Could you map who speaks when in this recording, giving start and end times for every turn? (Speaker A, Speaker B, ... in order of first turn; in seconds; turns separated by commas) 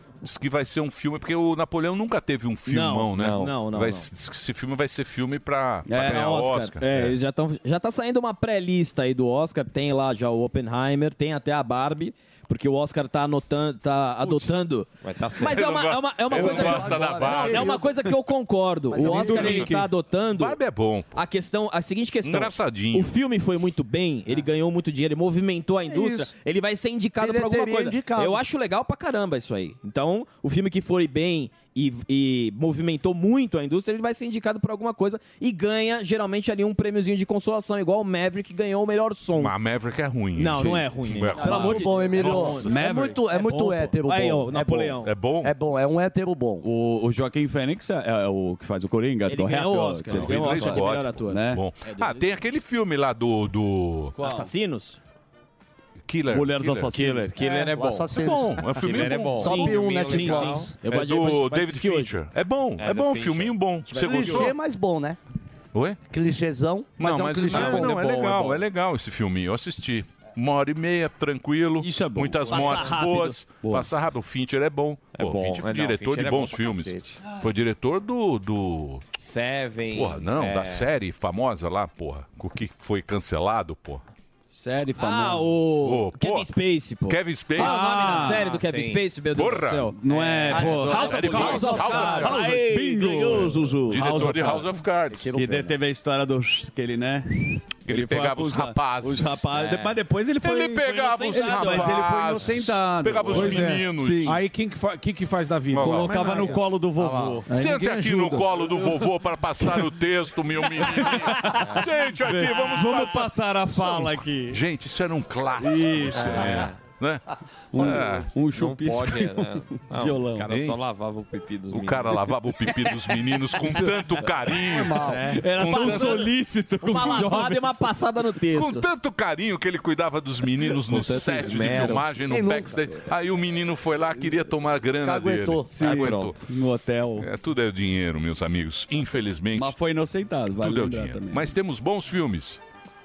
Speaker A: 0.2-7.2, Speaker B: 2.7-4.1, Speaker C: 3.2-3.5, Speaker D: 5.9-6.2, Speaker B: 6.0-20.6, Speaker C: 15.0-15.6, Speaker A: 15.4-17.8, Speaker E: 16.3-17.9, Speaker E: 18.9-19.6, Speaker F: 19.0-19.9, Speaker A: 19.3-19.7, Speaker A: 20.3-21.1, Speaker B: 21.1-39.5, Speaker A: 22.2-23.1, Speaker E: 25.9-26.3, Speaker E: 27.2-28.4, Speaker A: 39.4-42.8, Speaker B: 40.4-45.1, Speaker E: 41.4-46.7, Speaker D: 42.6-43.2, Speaker A: 45.0-45.5, Speaker D: 46.6-51.6, Speaker B: 49.3-52.3, Speaker A: 50.1-54.1, Speaker B: 54.2-55.0, Speaker D: 54.2-54.5, Speaker A: 56.1-57.1, Speaker D: 56.3-57.3, Speaker C: 56.9-58.1, Speaker E: 57.7-58.7, Speaker A: 58.1-59.8, Speaker C: 58.7-60.7, Speaker E: 59.4-60.7, Speaker B: 59.4-62.1, Speaker A: 60.8-64.6, Speaker C: 62.8-63.6, Speaker B: 63.9-64.5, Speaker E: 64.0-65.2, Speaker A: 65.7-66.0, Speaker E: 66.1-68.0, Speaker A: 67.0-79.1, Speaker C: 67.5-68.5, Speaker D: 71.8-73.0, Speaker B: 72.5-73.4, Speaker C: 75.2-77.2, Speaker C: 79.2-80.9, Speaker A: 79.9-84.0, Speaker D: 84.5-85.5, Speaker B: 85.0-94.3, Speaker A: 85.8-86.5, Speaker A: 87.1-87.8, Speaker D: 87.6-88.5, Speaker C: 88.1-89.0, Speaker A: 89.3-89.9, Speaker D: 90.0-94.8, Speaker C: 90.5-92.1, Speaker A: 90.6-92.6, Speaker A: 93.3-95.3, Speaker E: 95.1-95.8, Speaker D: 95.3-104.4, Speaker A: 97.8-99.5, Speaker C: 99.5-100.0, Speaker A: 100.4-104.4, Speaker B: 101.0-102.1, Speaker F: 103.3-106.6, Speaker A: 105.7-106.2, Speaker D: 105.8-107.5, Speaker C: 106.4-107.4, Speaker F: 107.5-109.0, Speaker A: 107.5-118.3, Speaker D: 110.8-114.6, Speaker D: 115.6-116.7, Speaker C: 116.2-116.8, Speaker D: 117.7-120.5, Speaker C: 118.5-122.3, Speaker A: 120.5-120.8, Speaker A: 121.7-126.3, Speaker E: 124.7-125.3, Speaker C: 125.0-125.5, Speaker D: 125.3-127.8, Speaker B: 125.6-128.9, Speaker A: 128.5-136.4, Speaker C: 130.9-132.1, Speaker E: 132.3-132.9, Speaker E: 135.0-135.7, Speaker D: 135.8-137.3, Speaker C: 135.8-136.3, Speaker A: 137.2-139.8, Speaker D: 139.6-141.5, Speaker A: 140.6-142.6